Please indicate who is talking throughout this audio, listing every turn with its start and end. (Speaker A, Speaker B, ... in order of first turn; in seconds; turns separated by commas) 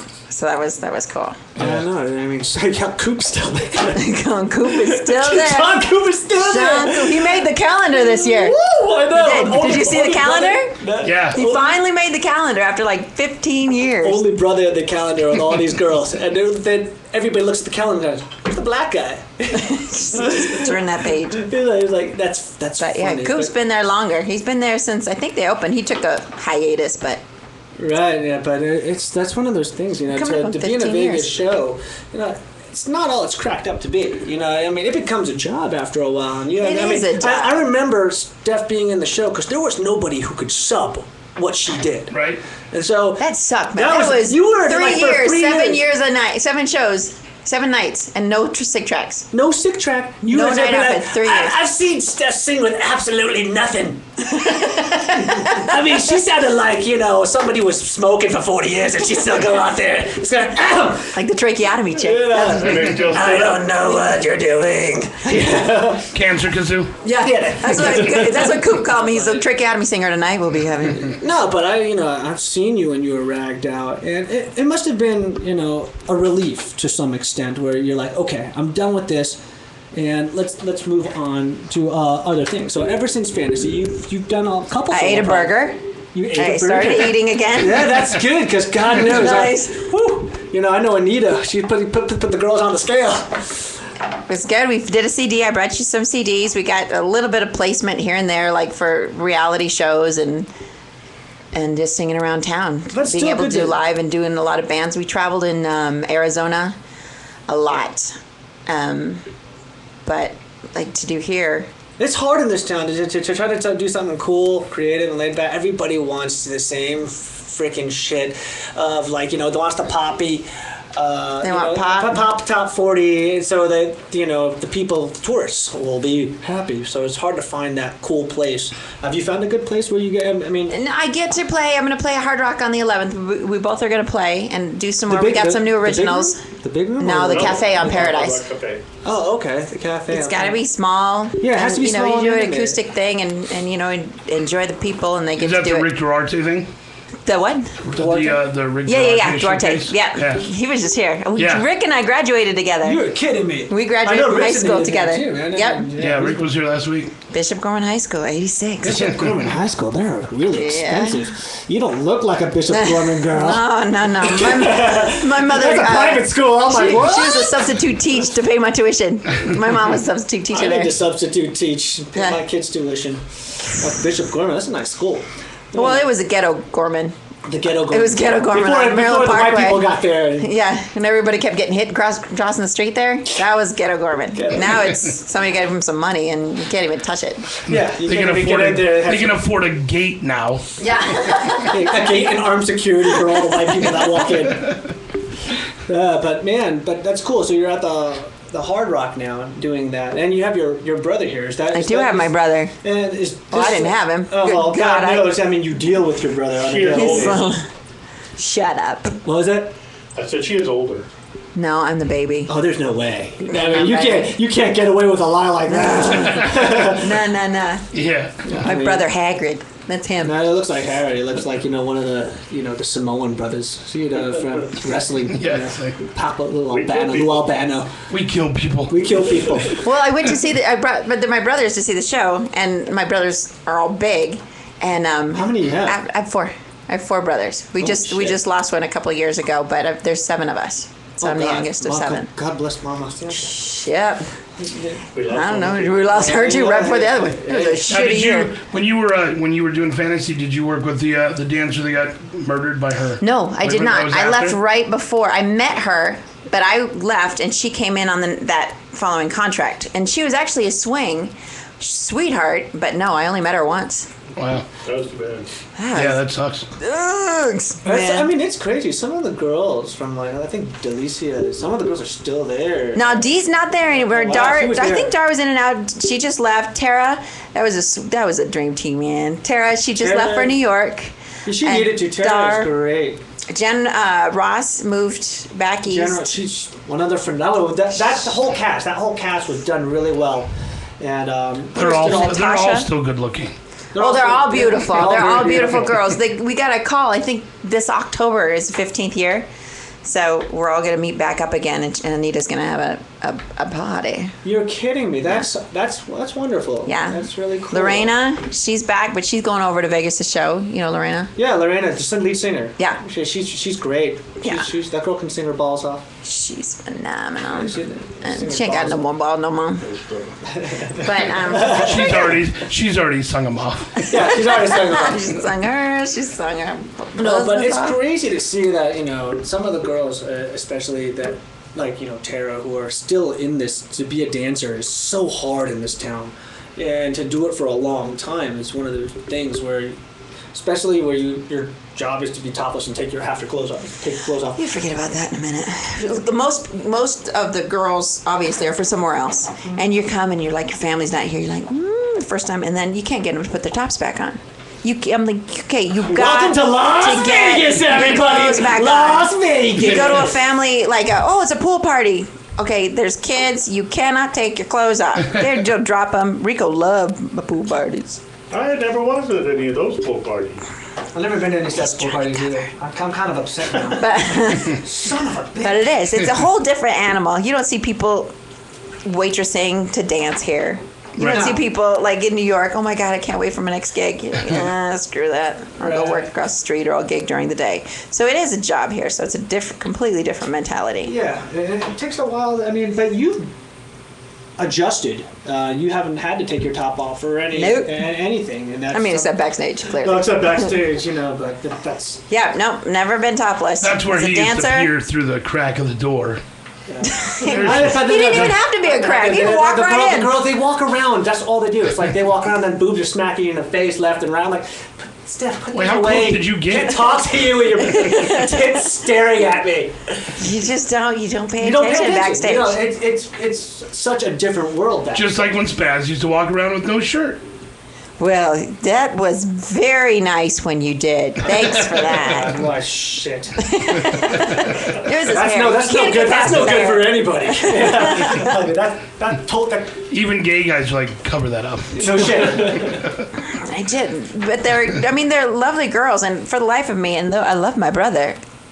Speaker A: 0.3-1.4, Speaker B: 1.6-4.1, Speaker A: 4.0-10.8, Speaker B: 4.7-7.4, Speaker B: 8.0-11.8, Speaker C: 11.0-11.4, Speaker A: 11.3-14.2, Speaker B: 14.0-23.5, Speaker A: 19.5-21.5, Speaker A: 22.8-27.2, Speaker B: 27.8-42.2, Speaker A: 30.1-31.4, Speaker A: 36.6-37.7, Speaker C: 42.1-42.4, Speaker B: 42.7-45.8, Speaker A: 43.2-49.3, Speaker B: 49.3-61.2, Speaker A: 50.2-51.5, Speaker A: 54.5-55.8, Speaker A: 61.1-62.8, Speaker B: 62.0-66.1, Speaker D: 62.3-63.7, Speaker A: 63.9-64.2, Speaker C: 66.1-66.9, Speaker B: 67.0-68.6, Speaker A: 67.0-71.2, Speaker B: 71.1-79.4, Speaker B: 79.9-85.6, Speaker A: 84.9-85.8, Speaker B: 86.1-93.7, Speaker A: 86.3-88.1, Speaker A: 89.0-89.8, Speaker A: 94.3-100.5, Speaker A: 101.5-106.8, Speaker B: 102.9-103.8, Speaker A: 107.5-108.2, Speaker A: 108.7-109.3, Speaker A: 110.0-111.7, Speaker B: 112.0-130.8, Speaker A: 121.4-122.2, Speaker A: 130.7-136.4, Speaker B: 135.1-138.1, Speaker A: 137.0-138.4, Speaker D: 137.3-138.8, Speaker B: 139.0-140.6, Speaker A: 140.1-145.9, Speaker B: 141.4-142.8, Speaker C: 145.4-146.7, Speaker A: 147.3-147.8, Speaker B: 147.9-148.4, Speaker C: 147.9-150.4, Speaker A: 148.8-153.0, Speaker C: 151.4-151.7, Speaker B: 152.8-156.4, Speaker A: 153.7-155.9, Speaker C: 156.0-157.1, Speaker A: 157.3-159.1, Speaker B: 158.8-163.7, Speaker C: 158.9-159.2, Speaker A: 160.5-161.2, Speaker A: 162.7-170.9, Speaker B: 164.2-167.6, Speaker B: 170.5-176.1, Speaker A: 172.2-172.4, Speaker A: 175.7-177.2, Speaker B: 177.5-180.5, Speaker A: 177.9-187.4, Speaker B: 184.3-185.0, Speaker B: 187.7-189.4, Speaker C: 187.7-190.7, Speaker A: 190.8-192.2, Speaker B: 191.6-194.8, Speaker B: 195.8-207.5, Speaker A: 201.7-202.8, Speaker A: 203.5-205.4, Speaker D: 206.6-207.6, Speaker A: 206.9-207.7, Speaker A: 208.4-209.2, Speaker B: 209.2-209.7, Speaker D: 210.2-211.1, Speaker A: 211.6-212.5, Speaker B: 212.5-217.1, Speaker A: 213.5-214.3, Speaker A: 215.7-217.9, Speaker C: 217.9-218.4, Speaker B: 218.4-219.1, Speaker A: 218.6-220.4, Speaker B: 220.2-228.0, Speaker C: 225.3-226.0, Speaker D: 226.7-227.5, Speaker C: 228.1-229.6, Speaker B: 228.9-229.8, Speaker A: 229.8-242.3, Speaker B: 235.3-236.0, Speaker B: 237.8-238.4, Speaker B: 241.2-243.6, Speaker A: 243.3-244.3, Speaker B: 244.6-245.0, Speaker D: 245.1-246.2, Speaker A: 245.3-248.5, Speaker B: 246.1-248.0, Speaker C: 247.9-254.6, Speaker A: 253.2-264.1, Speaker C: 264.4-264.7, Speaker D: 264.9-265.5, Speaker A: 265.8-266.2, Speaker C: 265.9-266.7, Speaker A: 266.8-268.3, Speaker B: 267.8-273.1, Speaker A: 272.9-282.7, Speaker B: 274.0-275.1, Speaker B: 280.0-280.6, Speaker B: 281.4-283.2, Speaker A: 283.5-286.3, Speaker B: 285.9-290.5, Speaker B: 291.0-292.4, Speaker A: 291.8-292.9, Speaker C: 291.8-293.5, Speaker B: 293.9-296.0, Speaker A: 294.0-299.5, Speaker A: 300.0-304.4, Speaker B: 304.4-308.2, Speaker A: 306.9-311.3, Speaker B: 311.4-316.1, Speaker A: 314.4-314.7, Speaker A: 316.2-319.9, Speaker B: 317.5-319.1, Speaker D: 319.8-320.4, Speaker B: 320.5-322.4, Speaker A: 321.0-322.3, Speaker C: 321.7-324.2, Speaker B: 324.1-325.4, Speaker A: 324.2-328.0, Speaker B: 327.2-340.0, Speaker B: 340.5-344.9, Speaker A: 344.6-368.2, Speaker B: 356.1-360.4, Speaker D: 368.5-370.7, Speaker B: 371.1-375.9, Speaker A: 371.8-372.6, Speaker A: 374.0-374.9, Speaker A: 375.6-378.3, Speaker A: 379.1-391.1, Speaker C: 381.2-381.5, Speaker B: 381.2-381.6, Speaker B: 385.8-386.3, Speaker B: 391.0-393.5, Speaker B: 394.6-399.3, Speaker A: 397.5-398.2, Speaker A: 398.9-400.7, Speaker B: 400.0-402.2, Speaker A: 402.3-404.9, Speaker C: 403.8-406.4, Speaker B: 406.9-420.4, Speaker A: 407.0-410.5, Speaker C: 407.3-408.6, Speaker C: 415.7-417.2, Speaker A: 418.0-418.6, Speaker A: 420.4-422.8, Speaker B: 421.6-425.5, Speaker C: 425.1-427.4, Speaker A: 428.2-432.6, Speaker B: 431.4-440.0, Speaker A: 433.6-438.6, Speaker C: 440.1-443.3, Speaker B: 441.9-443.1, Speaker A: 443.4-448.4